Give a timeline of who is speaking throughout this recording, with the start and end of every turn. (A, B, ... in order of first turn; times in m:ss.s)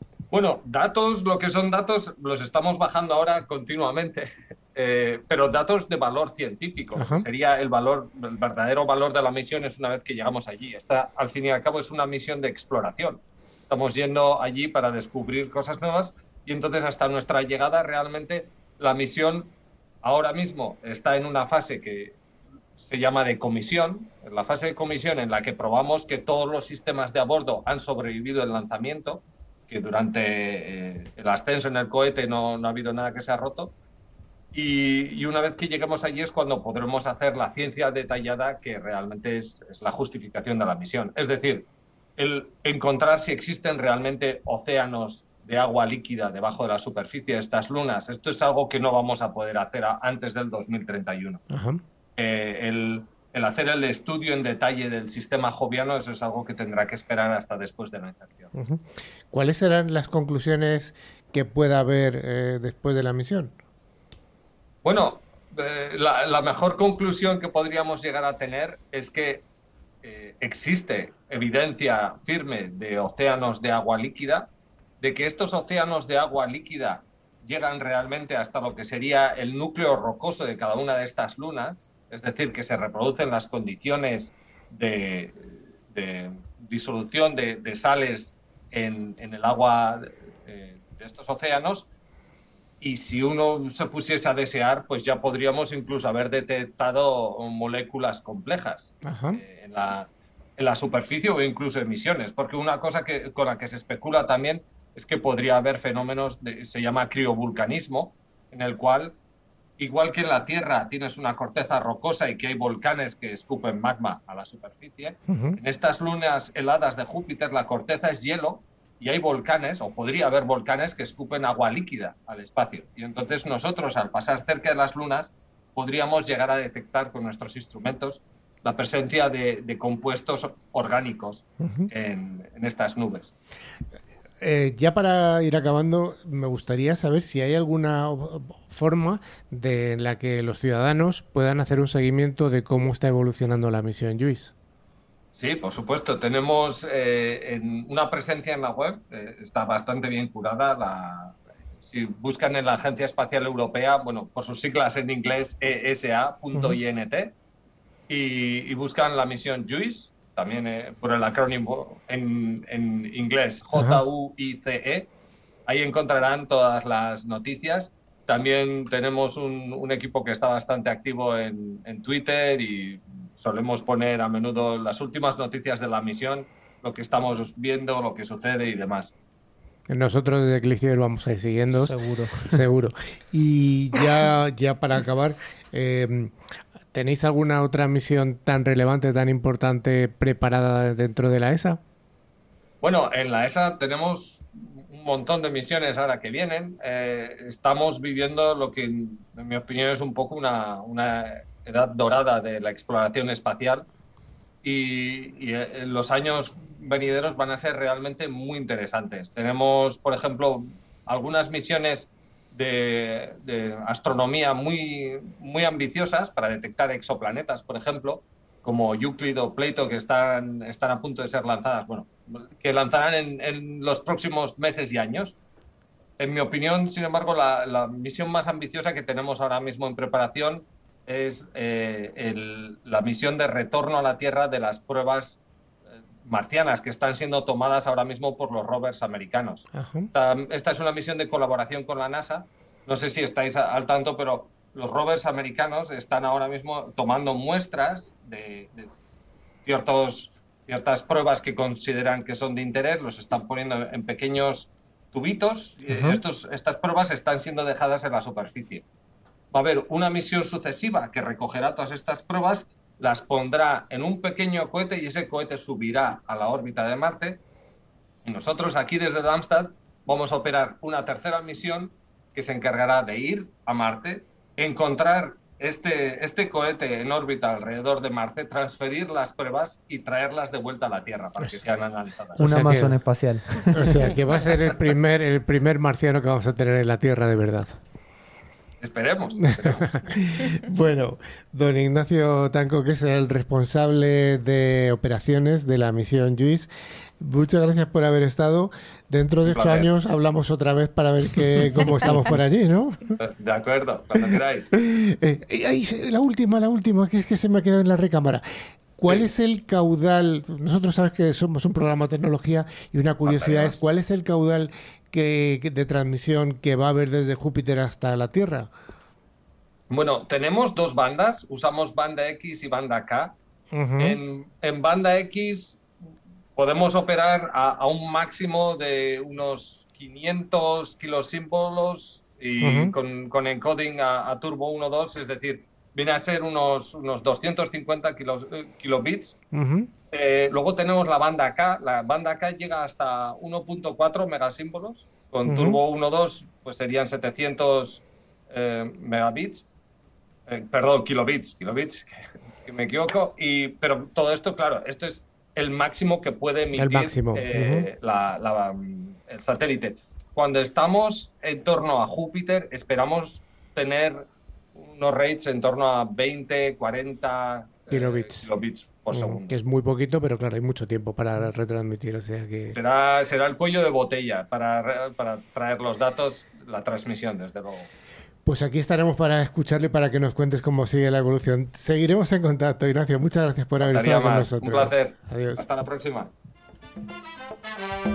0:00.3-0:22.2 A
0:07.0-0:07.3 B
0:22.8-0:33.7 A
0:34.5-0:51.4 A
0:51.5-0:51.8 B
0:52.2-0:58.5 A
0:58.5-1:03.5 B
1:04.8-1:09.4 A
1:10.0-1:31.9 A
1:32.8-1:49.2 A
1:39.0-1:39.4 B
1:49.8-2:13.3 A
1:55.3-1:55.6 B
2:11.6-2:11.9 B
2:14.4-2:24.5 B
2:25.3-2:37.3 A
2:36.5-2:36.8 B
2:38.1-2:45.1 A
2:43.7-2:44.0 B
2:45.7-2:59.1 A
2:59.9-3:06.3 B
3:01.8-3:02.6 C
3:06.9-3:11.8 B
3:12.8-3:23.9 A
3:24.6-3:45.4 A
3:46.2-3:55.4 A
3:56.2-4:08.9 A
3:59.7-4:00.1 B
4:09.6-4:18.8 A
4:15.9-4:16.2 B
4:19.5-4:27.4 A
4:28.2-4:42.4 A
4:42.4-4:43.0 B
4:42.4-4:44.0 C
4:43.7-4:47.8 B
4:48.8-4:50.0 A
4:49.5-5:03.2 B
4:59.4-4:59.9 A
5:03.2-5:04.7 A
5:04.2-5:08.4 B
5:09.0-5:18.7 B
5:13.2-5:13.8 A
5:19.9-5:23.4 A
5:23.7-5:24.2 B
5:24.0-5:25.8 A
5:26.5-5:39.4 A
5:32.6-5:32.9 B
5:39.5-5:39.9 B
5:40.1-5:49.7 A
5:45.4-5:45.8 B
5:50.5-6:09.5 A
5:56.7-5:57.9 B
6:07.9-6:08.5 B
6:09.1-6:12.8 B
6:12.7-6:17.9 A
6:18.4-6:25.6 B
6:23.8-6:26.3 A